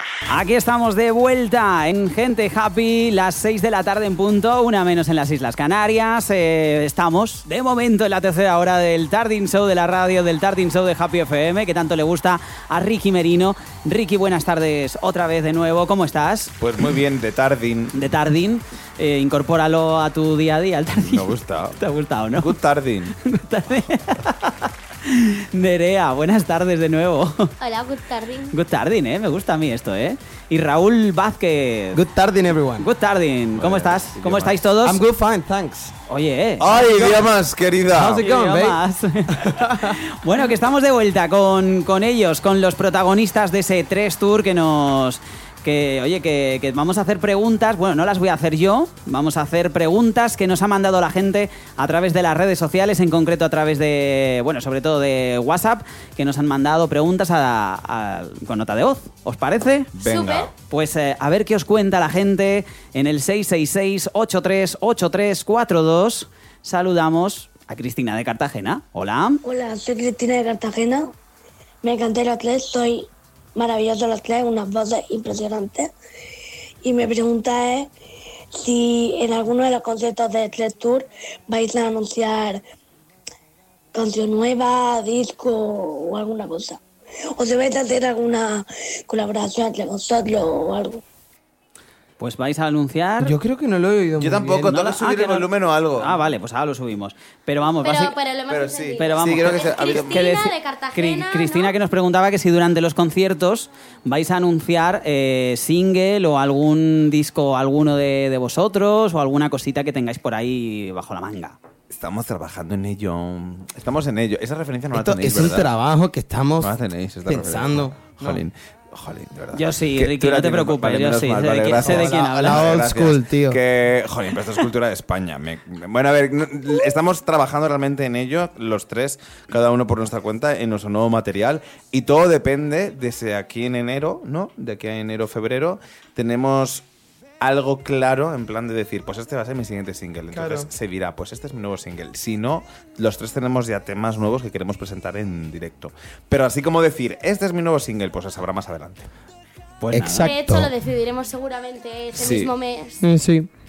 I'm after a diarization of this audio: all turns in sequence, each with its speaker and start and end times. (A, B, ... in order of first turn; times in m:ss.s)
0:00.3-0:16.5 A
0:16.6-0:18.0 B
0:17.9-0:22.6 A
0:21.0-0:21.8 B
0:22.4-0:23.1 B
0:23.2-0:27.5 A
0:27.6-0:28.5 C
0:28.5-0:32.0 A
0:31.9-0:32.9 D
0:32.8-0:35.0 A
0:33.6-0:34.6 B
0:34.8-0:35.9 D
0:36.1-0:36.7 A
0:36.6-0:38.2 B
0:37.0-0:37.2 D
0:37.9-0:38.8 D
0:38.0-0:59.9 A
0:39.3-0:40.0 D
0:59.9-1:00.5 B
1:00.0-1:00.5 C
1:00.7-1:09.4 A
1:09.4-1:11.1 E
1:11.8-1:15.9 E
1:16.8-1:17.9 E
1:18.5-1:22.6 E
1:23.9-1:26.8 E
1:27.4-1:31.0 E
1:32.2-1:33.3 A
1:33.2-1:34.8 D
1:34.2-1:36.2 B
1:34.7-1:38.1 A
1:37.8-1:41.7 C
1:38.5-1:40.3 B
1:39.0-1:51.6 A
1:51.9-1:55.7 B
1:54.9-1:58.4 D
1:56.6-2:16.8 B
1:59.5-2:02.7 A
2:01.8-2:03.6 D
2:17.4-2:29.1 B
2:20.3-2:20.7 D
2:29.8-2:30.3 A
2:29.9-2:30.7 D
2:30.2-2:33.0 C
2:32.1-2:32.5 B
2:33.0-2:33.5 D